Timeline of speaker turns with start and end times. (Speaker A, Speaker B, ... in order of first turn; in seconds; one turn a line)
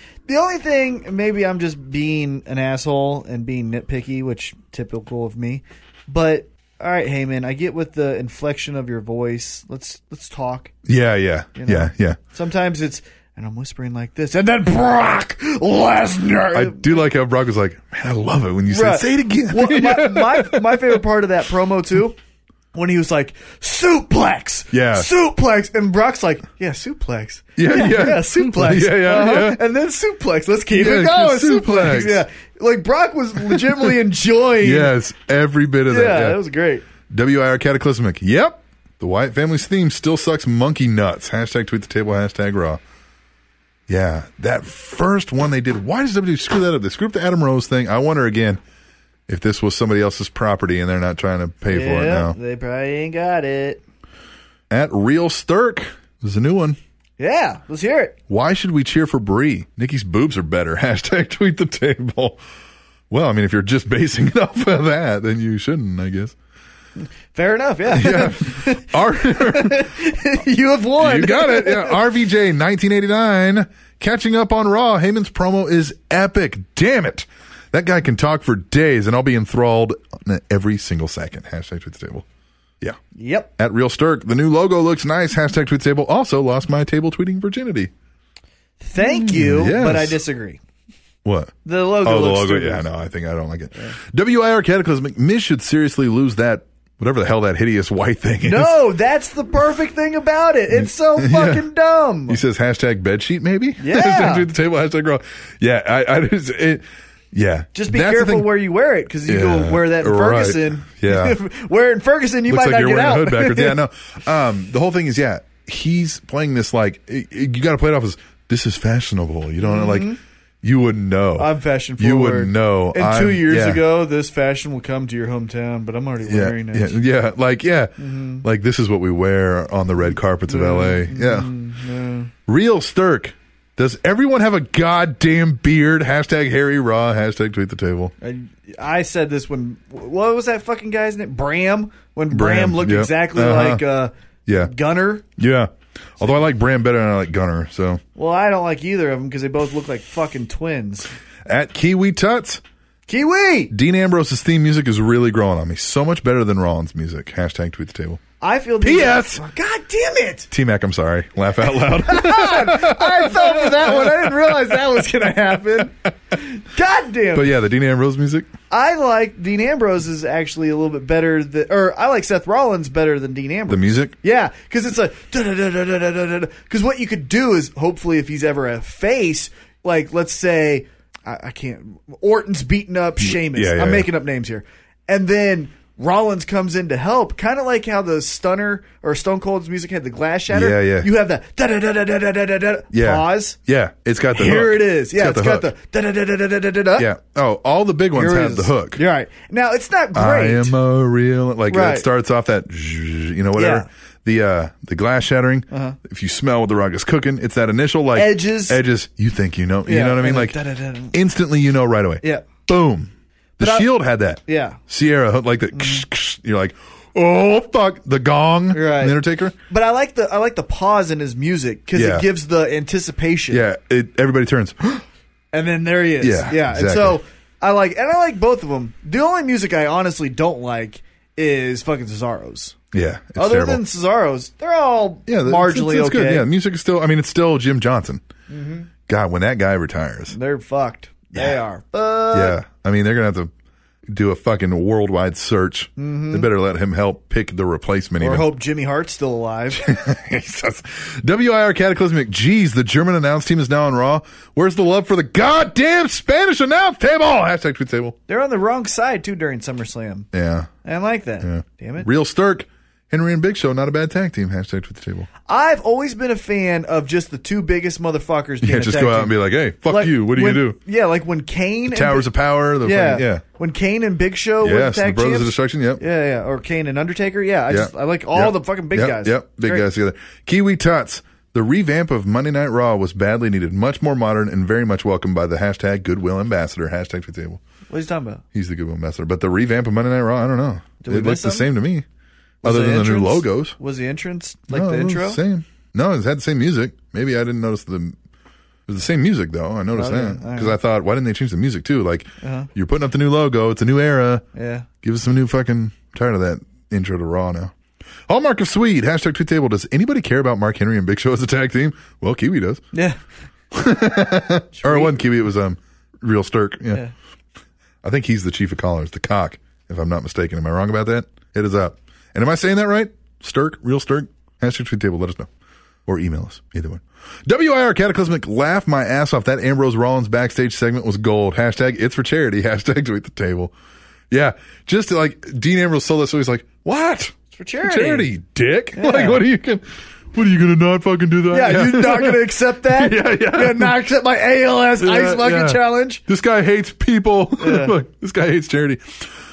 Speaker A: 0.3-10.7
Speaker B: 10.9-12.2
Speaker A: 11.6-17.0
Speaker B: 16.5-21.0
Speaker A: 18.7-22.2
Speaker A: 22.7-34.9
Speaker B: 24.7-25.1
Speaker B: 27.6-29.6
Speaker B: 30.7-32.2
Speaker B: 33.4-33.9
Speaker B: 34.6-36.4
Speaker A: 35.9-36.9
Speaker B: 37.1-42.8
Speaker B: 43.9-48.6
Speaker B: 49.3-52.4
Speaker A: 51.7-53.8
Speaker B: 54.7-56.8
Speaker A: 57.2-58.2
Speaker B: 58.3-62.4
Speaker B: 63.1-66.3
Speaker A: 67.3-72.0
Speaker B: 67.9-69.9
Speaker B: 71.0-82.2
Speaker A: 83.2-83.5
Speaker B: 83.6-87.9
Speaker A: 88.8-90.6
Speaker B: 89.0-90.2
Speaker B: 91.2-98.8
Speaker A: 91.7-92.9
Speaker A: 98.5-102.4
Speaker B: 100.7-101.7
Speaker B: 102.3-108.5
Speaker A: 103.8-104.5
Speaker A: 107.8-113.8
Speaker B: 109.3-111.4
Speaker B: 112.5-120.1
Speaker A: 119.6-120.2
Speaker B: 120.6-123.8
Speaker A: 121.4-127.0
Speaker B: 126.2-131.5
Speaker A: 128.0-128.4
Speaker A: 130.5-132.3
Speaker B: 132.5-138.1
Speaker A: 138.2-145.2
Speaker B: 142.3-143.9
Speaker B: 144.5-144.7
Speaker B: 145.4-148.0
Speaker A: 148.2-151.1
Speaker B: 151.5-152.6
Speaker A: 153.1-153.7
Speaker B: 153.7-158.2
Speaker A: 158.4-160.5
Speaker B: 158.8-159.4
Speaker B: 160.5-164.8
Speaker A: 161.6-167.5
Speaker B: 167.3-168.5
Speaker A: 168.7-193.6
Speaker B: 173.7-174.1
Speaker B: 183.2-184.1
Speaker B: 190.5-191.1
Speaker B: 192.9-195.7
Speaker A: 194.3-197.1
Speaker B: 197.0-199.0
Speaker A: 198.2-200.8
Speaker B: 200.1-210.6
Speaker A: 201.7-202.1
Speaker A: 203.6-203.9
Speaker A: 205.7-206.0
Speaker A: 208.1-208.8
Speaker A: 209.8-211.2
Speaker B: 211.1-219.6
Speaker A: 212.2-212.5
Speaker A: 213.6-213.9
Speaker A: 214.5-214.8
Speaker A: 215.7-216.1
Speaker A: 218.7-223.6
Speaker B: 221.9-222.3
Speaker B: 223.5-225.1
Speaker A: 225.5-232.8
Speaker B: 226.2-227.2
Speaker B: 232.9-233.8
Speaker A: 233.4-236.5
Speaker B: 235.3-238.2
Speaker A: 238.5-238.9
Speaker B: 239.1-240.4
Speaker A: 240.3-242.6
Speaker B: 242.3-243.5
Speaker B: 244.1-248.5
Speaker A: 246.0-246.5
Speaker A: 248.2-249.9
Speaker B: 249.7-258.2
Speaker A: 258.3-260.3
Speaker B: 260.3-260.7
Speaker A: 260.8-262.1
Speaker B: 261.4-265.3
Speaker A: 265.5-269.4
Speaker B: 268.6-270.8
Speaker A: 269.9-272.3
Speaker B: 271.9-273.4
Speaker A: 272.8-279.9
Speaker B: 274.6-276.0
Speaker B: 277.7-287.6
Speaker A: 287.9-288.4
Speaker B: 288.5-292.1
Speaker A: 291.0-291.7
Speaker B: 292.6-293.8
Speaker A: 292.6-295.4
Speaker B: 294.7-298.2
Speaker B: 298.9-304.4
Speaker A: 299.9-300.8
Speaker A: 302.4-302.7
Speaker A: 304.6-304.9
Speaker B: 305.0-307.7
Speaker B: 308.3-312.9
Speaker B: 313.7-317.1
Speaker A: 314.8-315.2
Speaker B: 318.0-325.5
Speaker B: 326.1-333.7
Speaker B: 334.3-344.0
Speaker A: 337.5-338.3
Speaker A: 338.9-339.4
Speaker A: 341.5-346.2
Speaker B: 345.0-349.3
Speaker A: 347.6-347.9